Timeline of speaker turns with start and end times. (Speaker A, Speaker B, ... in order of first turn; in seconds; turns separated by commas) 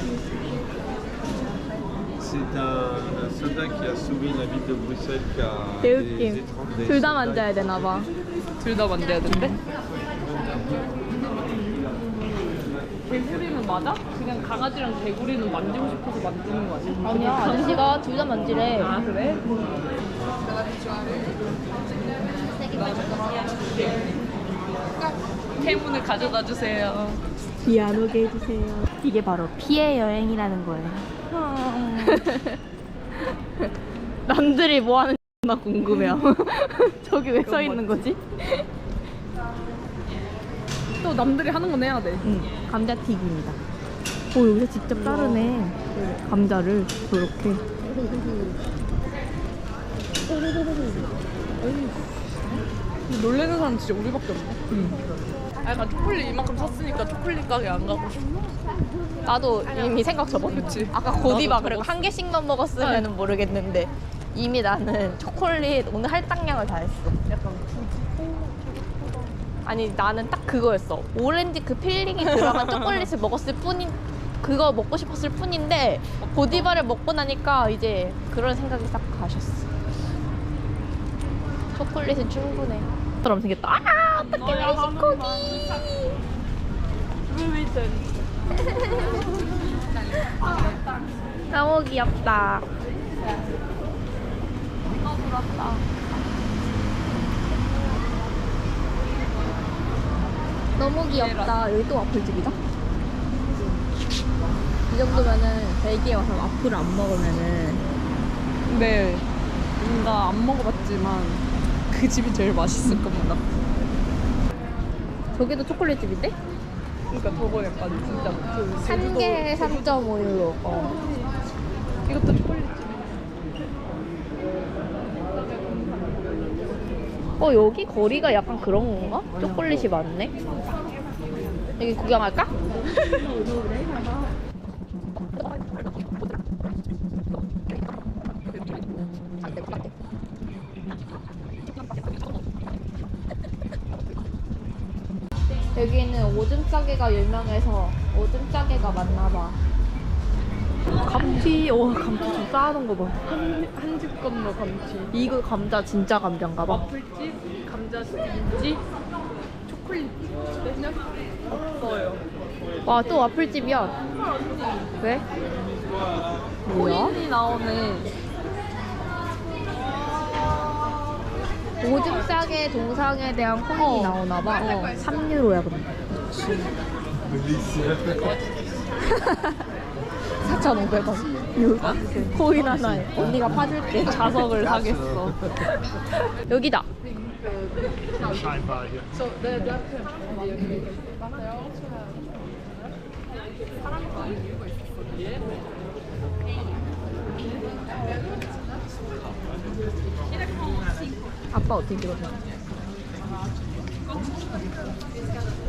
Speaker A: 2.2-7.2, Speaker B: 5.8-8.1, Speaker C: 8.6-9.6, Speaker C: 13.1-17.9, Speaker B: 17.0-18.9, Speaker C: 18.8-19.4, Speaker C: 22.4-23.7, Speaker C: 25.6-27.2, Speaker B: 27.6-31.1, Speaker C: 31.3-32.3, Speaker B: 31.9-32.6, Speaker B: 34.3-38.6, Speaker C: 37.4-38.1, Speaker C: 41.0-42.3, Speaker B: 42.2-43.6, Speaker B: 44.3-47.6, Speaker C: 45.0-46.2, Speaker C: 51.6-54.6, Speaker C: 55.6-58.3, Speaker B: 59.2-67.2, Speaker C: 60.3-62.0, Speaker C: 62.8-63.1, Speaker C: 67.3-68.6, Speaker B: 69.7-79.7, Speaker C: 76.2-76.7, Speaker B: 81.7-85.9, Speaker C: 84.2-86.0, Speaker C: 87.3-88.1, Speaker B: 91.5-92.7, Speaker C: 95.0-95.8, Speaker B: 100.8-102.6, Speaker C: 101.0-101.7, Speaker B: 104.9-107.8, Speaker C: 108.7-109.3, Speaker C: 109.8-113.4, Speaker B: 115.3-116.3, Speaker C: 117.1-119.9, Speaker B: 118.8-121.0, Speaker C: 122.0-123.2, Speaker B: 127.4-130.3, Speaker B: 131.8-132.5, Speaker B: 139.4-139.9, Speaker B: 145.7-149.6, Speaker B: 151.0-153.2, Speaker C: 153.3-155.1, Speaker B: 155.1-156.8, Speaker C: 156.7-158.8, Speaker C: 159.7-162.2, Speaker B: 162.9-164.0, Speaker C: 164.3-164.9, Speaker B: 166.7-167.2, Speaker C: 166.7-168.1, Speaker B: 171.8-175.9, Speaker C: 173.7-175.0, Speaker C: 176.3-176.7, Speaker B: 179.1-179.6, Speaker C: 180.4-183.1, Speaker B: 181.5-184.5, Speaker C: 183.9-185.5, Speaker B: 186.4-186.9, Speaker C: 189.5-190.8, Speaker B: 201.5-202.4